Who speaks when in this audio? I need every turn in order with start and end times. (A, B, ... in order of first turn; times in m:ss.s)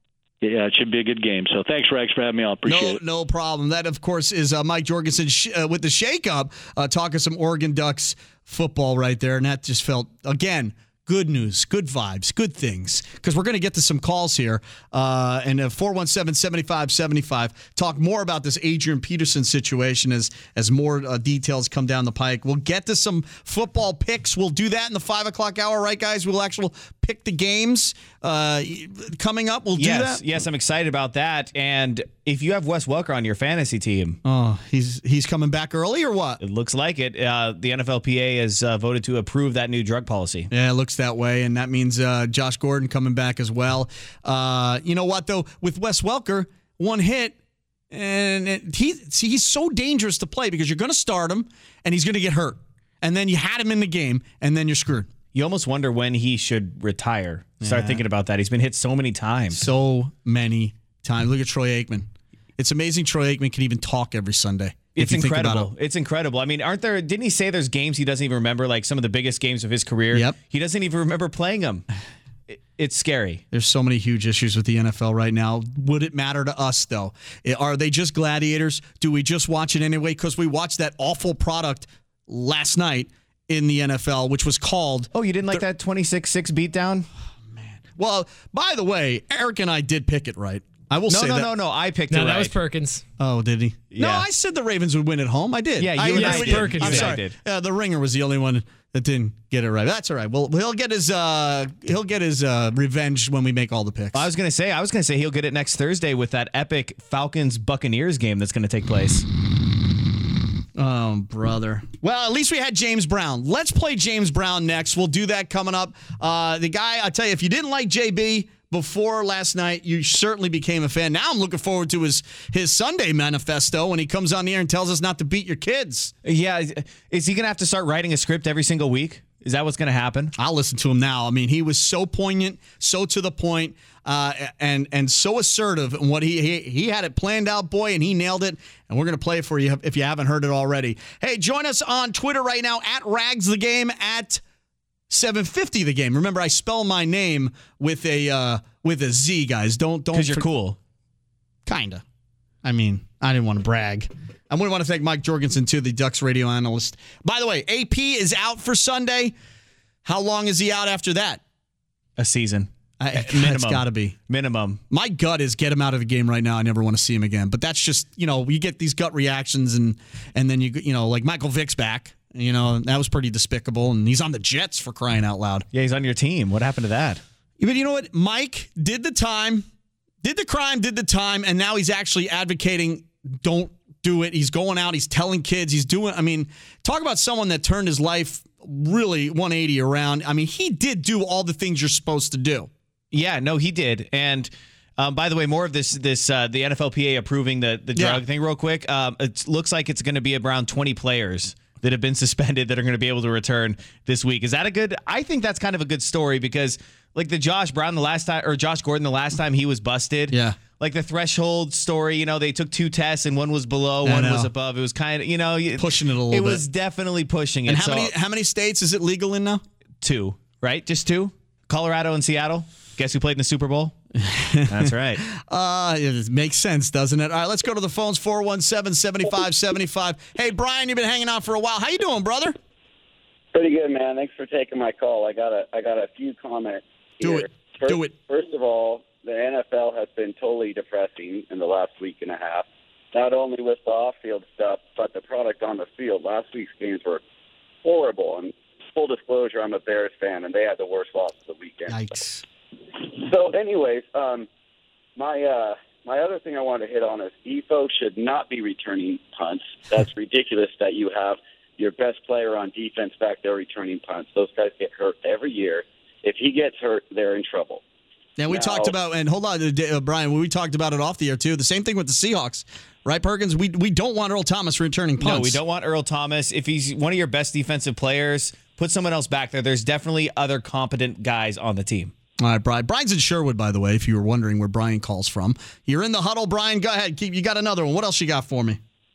0:00.4-0:03.0 A
0:02.7-0:30.2 B
0:29.8-0:34.2 C
0:34.2-0:36.4 B
0:36.4-0:40.5 C
0:40.5-0:47.4 B
0:47.9-0:55.1 B
0:55.3-0:59.6 C
0:57.6-0:58.0 B
0:59.5-1:05.7 B
1:05.0-1:11.9 C
1:12.5-1:13.4 C
1:13.5-1:25.6 B
1:25.1-1:27.1 C
1:27.5-1:31.5 B
1:31.1-1:32.6 C
1:32.1-1:33.0 D
1:33.2-1:44.3 B
1:33.9-1:34.2 C
1:35.8-1:37.4 C
1:36.0-1:37.2 D
1:44.1-1:49.3 C
1:50.8-2:06.1 B
2:06.2-2:10.3 C
2:10.4-2:24.4 B
2:25.1-2:30.5 B
2:30.1-2:30.8 C
2:31.7-2:32.0 B
2:32.6-2:39.4 B
2:40.0-2:41.4 B
2:42.2-2:44.8 C
2:43.0-2:44.2 B
2:44.9-2:55.7 B
2:55.7-2:57.2 C
2:57.6-2:59.7 B
3:00.2-3:12.7 B
3:13.1-3:38.1 C
3:18.0-3:18.2 B
3:30.3-3:30.6 B
3:34.0-3:34.5 B
3:35.8-3:36.6 B
3:37.7-3:39.6 B
3:40.0-3:44.0 C
3:44.2-3:52.6 B
3:44.7-3:45.2 C
3:53.5-4:07.2 E
3:57.2-3:58.1 B
4:07.8-4:12.1 E
4:11.9-4:12.4 B
4:12.9-4:14.5 E
4:15.2-4:27.8 E
4:28.4-4:35.6 B
4:28.5-4:28.9 E
4:35.2-4:42.1 C
4:42.4-4:48.8 B